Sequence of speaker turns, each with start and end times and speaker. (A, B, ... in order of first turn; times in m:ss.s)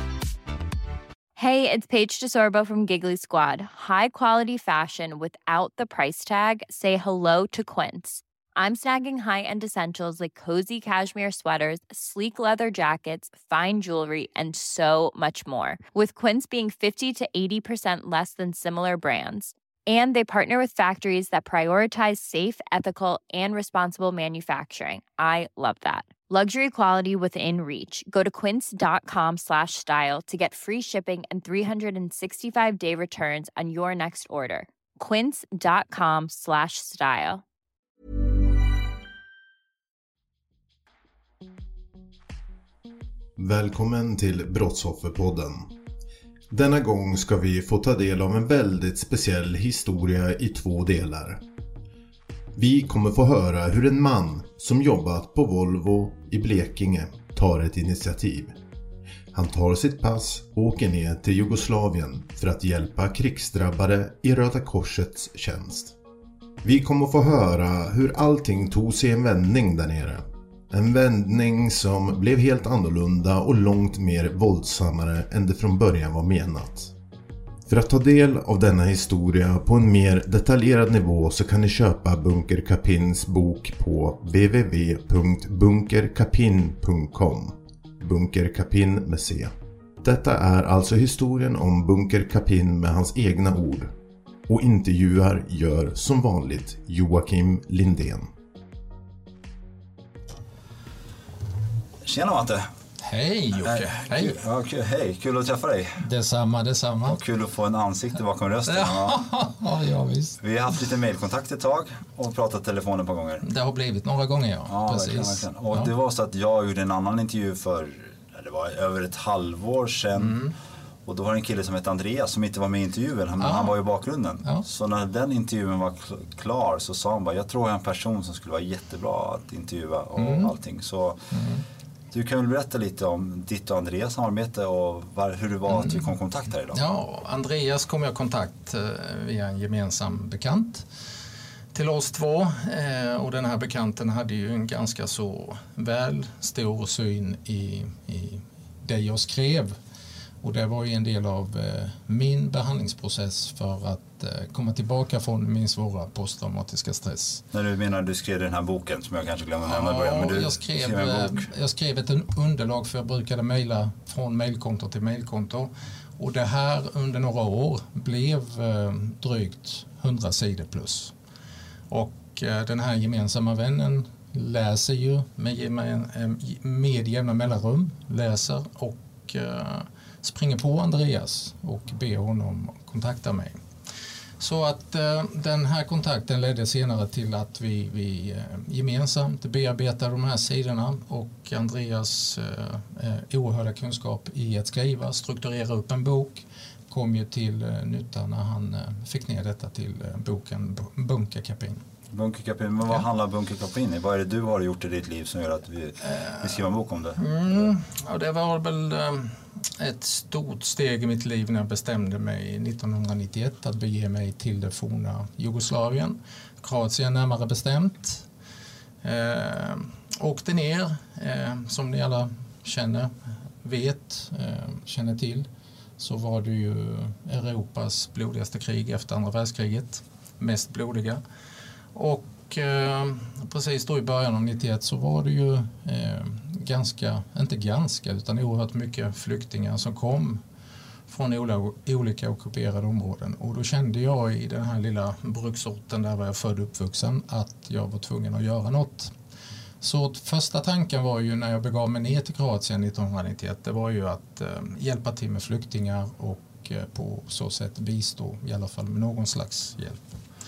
0:01.4-0:37.4 A
0:43.4-0:45.7 B
0:46.5-0:51.4 B
0:52.6-0:58.6 B
0:59.3-1:05.9 B
1:06.6-1:16.9 B
1:17.7-1:33.9 B
1:34.5-1:38.3 B
1:42.0-1:42.7 C
1:43.0-1:44.4 D
1:43.6-1:46.0 C
1:46.0-1:47.2 D
1:47.1-1:49.2 C
1:48.7-1:50.4 D
1:50.4-1:53.4 C
1:53.4-1:55.9 D
1:54.7-2:00.4 C
2:00.2-2:00.6 D
2:01.1-2:11.2 C
2:03.4-2:03.8 D
2:10.2-2:10.5 D
2:11.3-2:11.6 D
2:12.1-2:16.8 C
2:15.7-2:16.1 D
2:16.7-2:20.9 D
2:21.7-2:29.8 D
2:30.4-2:37.4 D
2:37.5-2:41.5 C
2:39.7-2:51.1 D
2:51.9-3:03.6 D
3:04.4-3:21.8 D
3:22.1-3:27.7 C
3:26.1-3:26.4 D
3:27.2-3:38.3 D
3:39.0-3:45.5 D
3:46.0-3:51.2 D
3:52.0-4:00.4 D
4:01.1-4:09.1 D
4:09.8-4:20.2 D